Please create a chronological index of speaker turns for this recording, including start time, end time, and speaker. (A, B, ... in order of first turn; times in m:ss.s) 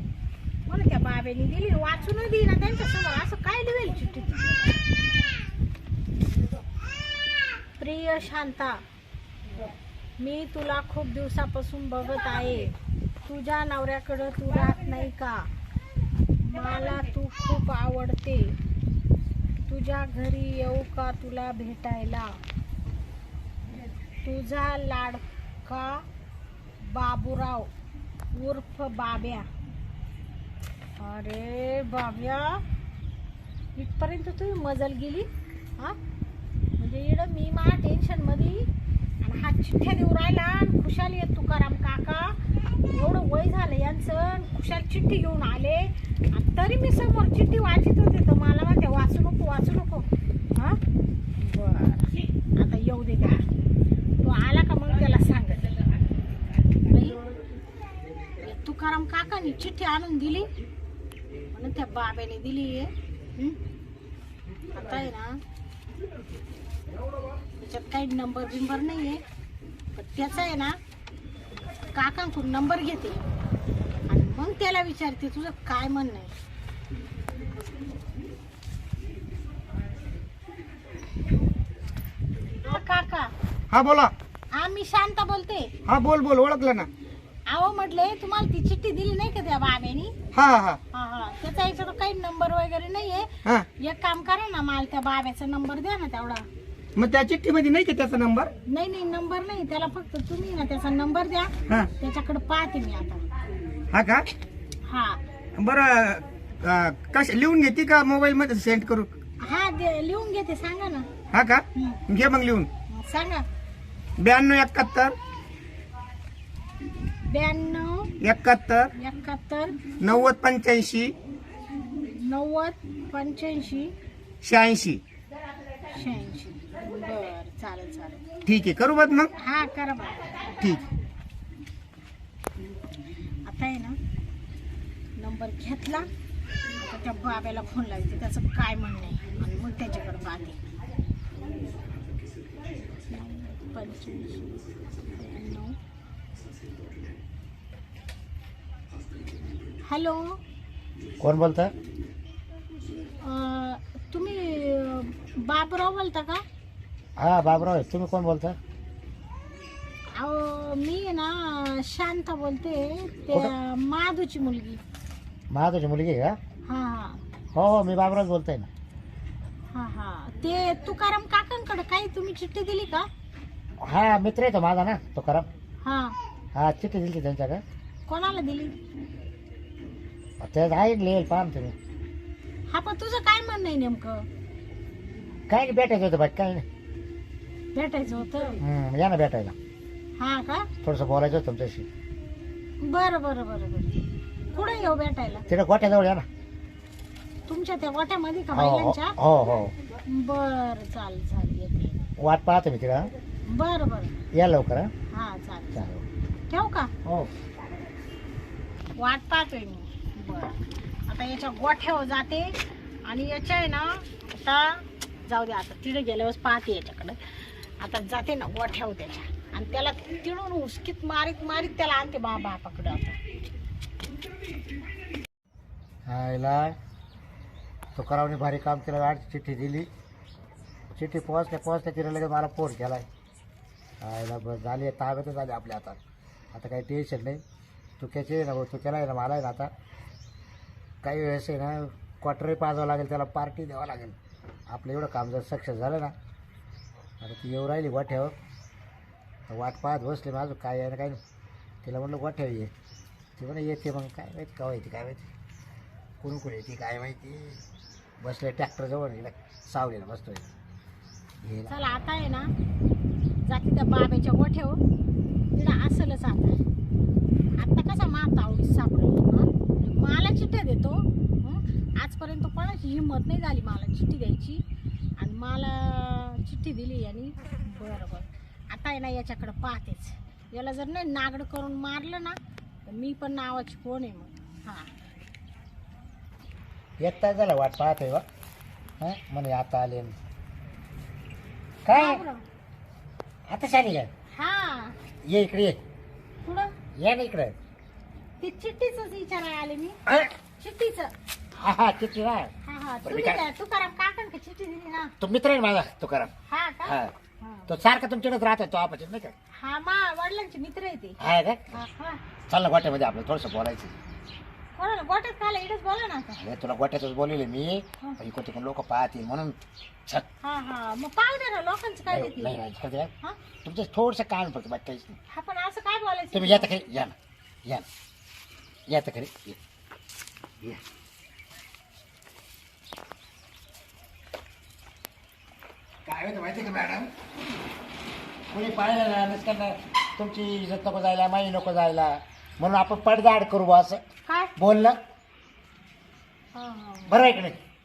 0:00.7-0:04.6 A
0:07.8-0:08.8 A
0:09.6-0:15.5 A
0:16.4-0:18.6 A
0:19.7-0:22.4 A
0:24.2-0:26.0 A
0:26.8-0:27.7 A
0:28.3-0:29.5 A
0:31.0-0:32.6 A
0:33.8-0:36.0 A
0:36.8-0:38.7 A
0:39.2-0:42.4 A
0:42.9-0:50.8 A
0:51.4-0:53.4 A
0:54.2-0:55.7 A
0:56.8-0:57.2 A
0:58.4-1:00.5 A
1:01.5-1:03.6 A
1:04.7-1:05.4 A
1:07.6-1:09.2 A
1:09.9-1:10.8 A
1:11.9-1:13.2 A
1:14.1-1:16.3 A
1:22.6-1:23.3 A
1:23.7-1:24.1 B
1:24.5-1:25.7 A
1:25.9-1:26.9 B
1:27.5-1:30.1 A
1:30.3-1:30.8 B
1:30.9-1:36.4 A
1:37.0-1:38.5 B
1:38.7-1:43.2 A
1:43.9-1:44.3 B
1:44.9-1:45.2 A
1:45.6-1:49.1 B
1:49.4-1:51.1 A
1:51.3-1:52.7 B
1:51.7-1:52.0 A
1:52.9-1:53.4 A
1:54.2-1:55.1 B
1:57.2-1:58.1 A
1:58.2-1:58.9 B
1:58.9-1:59.8 A
2:00.0-2:01.1 B
2:01.9-2:03.9 A
2:04.4-2:05.0 B
2:05.9-2:08.2 A
2:08.4-2:09.3 B
2:09.4-2:10.5 A
2:10.6-2:10.8 B
2:13.4-2:14.0 A
2:15.2-2:16.1 A
2:16.8-2:20.6 A
2:23.0-2:25.8 A
2:29.8-2:30.4 A
2:31.2-2:31.7 C
2:33.2-2:36.4 A
2:37.2-2:38.6 C
2:40.1-2:44.8 A
2:45.5-2:46.4 C
2:46.7-2:47.2 A
2:47.5-2:48.7 C
2:49.7-2:53.1 A
2:53.8-2:55.5 C
2:55.8-2:56.1 A
2:56.5-2:57.6 C
2:58.1-2:58.7 A
3:00.4-3:01.8 C
3:02.7-3:04.3 A
3:05.5-3:06.6 C
3:07.7-3:08.6 A
3:08.6-3:09.5 C
3:10.2-3:10.7 A
3:10.8-3:11.9 C
3:12.8-3:15.4 A
3:15.5-3:16.3 C
3:17.5-3:19.2 A
3:18.5-3:19.7 C
3:20.0-3:22.0 A
3:22.2-3:23.1 C
3:23.4-3:24.1 A
3:24.3-3:24.9 C
3:25.1-3:25.9 A
3:25.7-3:26.0 C
3:26.5-3:26.9 A
3:27.0-3:27.3 C
3:29.0-3:43.2 A
3:46.0-3:46.8 C
3:47.9-3:49.9 C
3:50.9-3:53.1 C
3:54.0-3:56.0 C
3:56.5-3:57.4 C
3:58.0-3:59.7 C
4:01.0-4:04.2 C
4:04.7-4:06.1 C
4:07.2-4:08.3 C
4:09.5-4:11.2 C
4:11.8-4:12.7 C
4:13.4-4:15.3 C
4:16.2-4:17.6 C
4:18.2-4:20.5 C
4:21.4-4:21.7 C
4:21.7-4:22.5 A
4:23.4-4:24.8 A
4:25.5-4:26.6 A
4:27.6-4:34.6 A
4:35.2-4:44.9 A
4:47.0-4:48.2 C
4:49.0-4:50.2 C
4:51.8-4:52.2 C
4:51.9-4:52.4 A
4:53.5-4:54.1 C
4:54.3-4:55.0 A
4:55.2-4:55.8 C
4:56.4-4:56.7 A
4:57.0-4:57.6 C
4:58.4-5:00.0 A
5:00.0-5:00.3 C
5:00.6-5:01.1 A
5:01.5-5:02.5 C
5:02.6-5:05.1 A
5:03.0-5:03.4 C
5:05.2-5:06.3 C
5:06.5-5:07.7 A
5:06.8-5:07.1 C
5:07.7-5:09.3 C
5:09.5-5:11.2 A
5:11.2-5:11.8 C
5:11.7-5:12.2 A
5:12.5-5:14.0 C
5:14.8-5:16.4 A
5:16.4-5:20.3 C
5:20.4-5:22.6 A
5:22.1-5:23.1 C
5:23.6-5:25.2 C
5:25.3-5:26.7 A
5:26.3-5:27.9 C
5:28.9-5:29.6 C
5:36.0-5:37.1 C
5:38.5-5:44.0 C
5:44.2-5:44.5 A
5:44.6-5:45.0 C
5:46.5-5:47.2 A
5:47.1-5:47.6 C